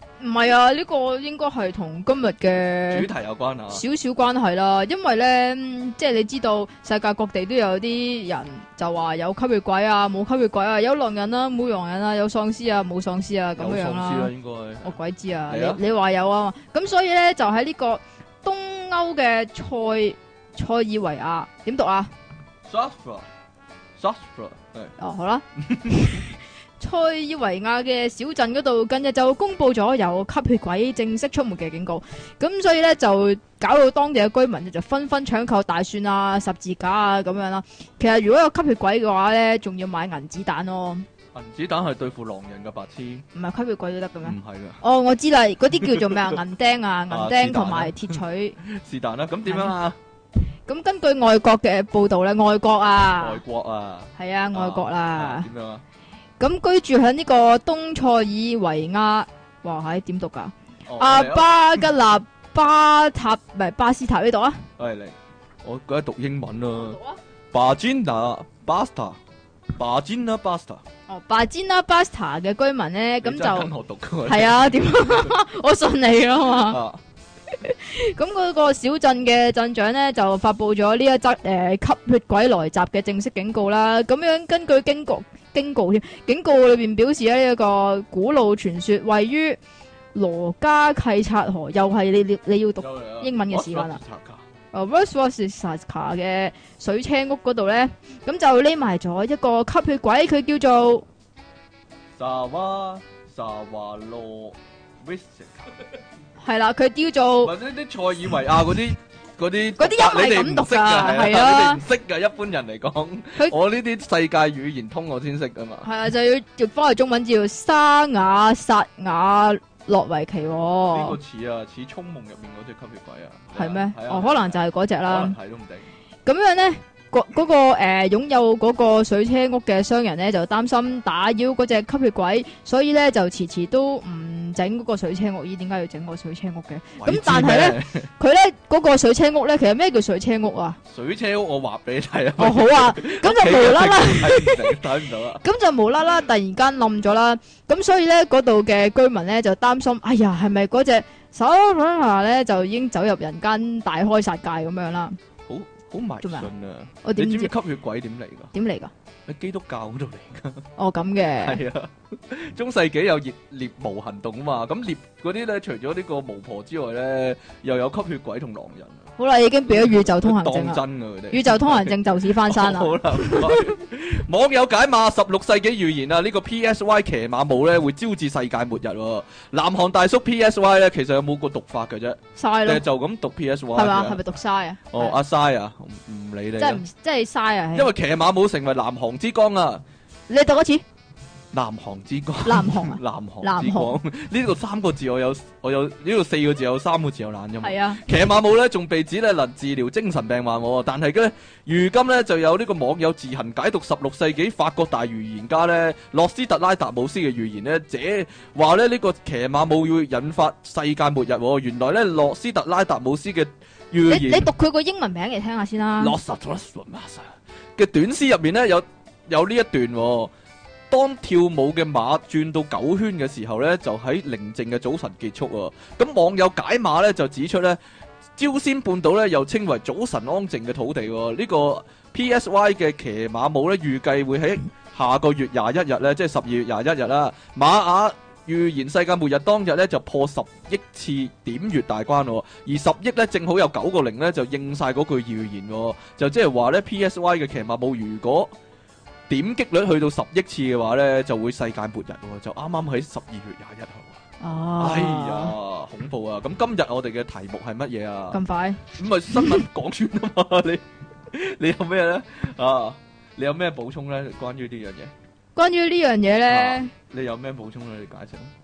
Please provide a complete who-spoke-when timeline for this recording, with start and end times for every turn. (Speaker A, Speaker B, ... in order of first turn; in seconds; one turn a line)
Speaker A: 0.2-3.0
Speaker B: 2.9-3.8
Speaker A: 3.7-14.3
Speaker B: 13.6-14.9
Speaker A: 14.8-22.1
Speaker B: 15.5-15.8
Speaker B: 22.6-23.3
Speaker B: 24.0-24.9
Speaker A: 25.0-26.3
Speaker B: 25.6-26.2
Speaker A: 26.8-41.0
Speaker B: 41.3-43.2
Speaker A: 43.3-48.6
Speaker B: 44.2-44.8
Speaker B: 45.8-46.3
Speaker B: 47.1-50.0
Speaker A: 49.5-49.7
Speaker A: 50.7-53.4
Speaker B: 53.2-55.8
Speaker A: 54.2-55.5
Speaker A: 56.4-64.6
Speaker B: 60.9-61.8
Speaker B: 64.8-67.0
Speaker A: 66.8-67.2
Speaker B: 67.5-69.2
Speaker B: 69.8-70.8
Speaker A: 71.1-73.7
Speaker B: 73.2-75.3
Speaker A: 74.2-76.8
Speaker B: 76.6-77.0
Speaker A: 77.5-89.6
Speaker A: 90.1-94.0
Speaker B: 92.8-94.4
Speaker A: 94.7-101.0
Speaker B: 102.2-105.8
Speaker A: 106.4-107.5
Speaker B: 107.4-115.9
Speaker A: 109.8-111.8
Speaker A: 115.8-121.2
Speaker B: 120.9-125.9
Speaker A: 123.5-125.3
Speaker A: 126.2-140.8
Speaker B: 137.0-138.1
Speaker B: 140.8-145.4
Speaker A: 142.4-144.8
Speaker A: 145.4-155.2
Speaker B: 155.5-158.5
Speaker A: 156.2-156.5
Speaker A: 157.0-157.5
Speaker A: 158.5-158.9
Speaker B: 159.3-160.6
Speaker A: 160.8-161.6
Speaker B: 161.4-169.1
Speaker A: 169.2-173.7
Speaker B: 169.7-184.2
Speaker A: 182.3-182.8
Speaker A: 183.7-185.2
Speaker B: 184.9-186.8
Speaker A: 186.6-187.9
Speaker B: 187.7-189.8
Speaker A: 190.3-190.8
Speaker B: 191.5-214.5
Speaker A: 192.4-193.9
Speaker A: 197.6-198.0
Speaker A: 214.1-216.1
Speaker B: 216.0-220.3
Speaker B: 220.9-227.8
Speaker B: 228.4-248.5
Speaker B: 249.3-254.2
Speaker A: 254.4-255.5
Speaker B: 254.8-258.4
Speaker A: 258.3-258.8
Speaker B: 258.9-265.1
Speaker A: 265.6-266.9
Speaker B: 266.5-268.5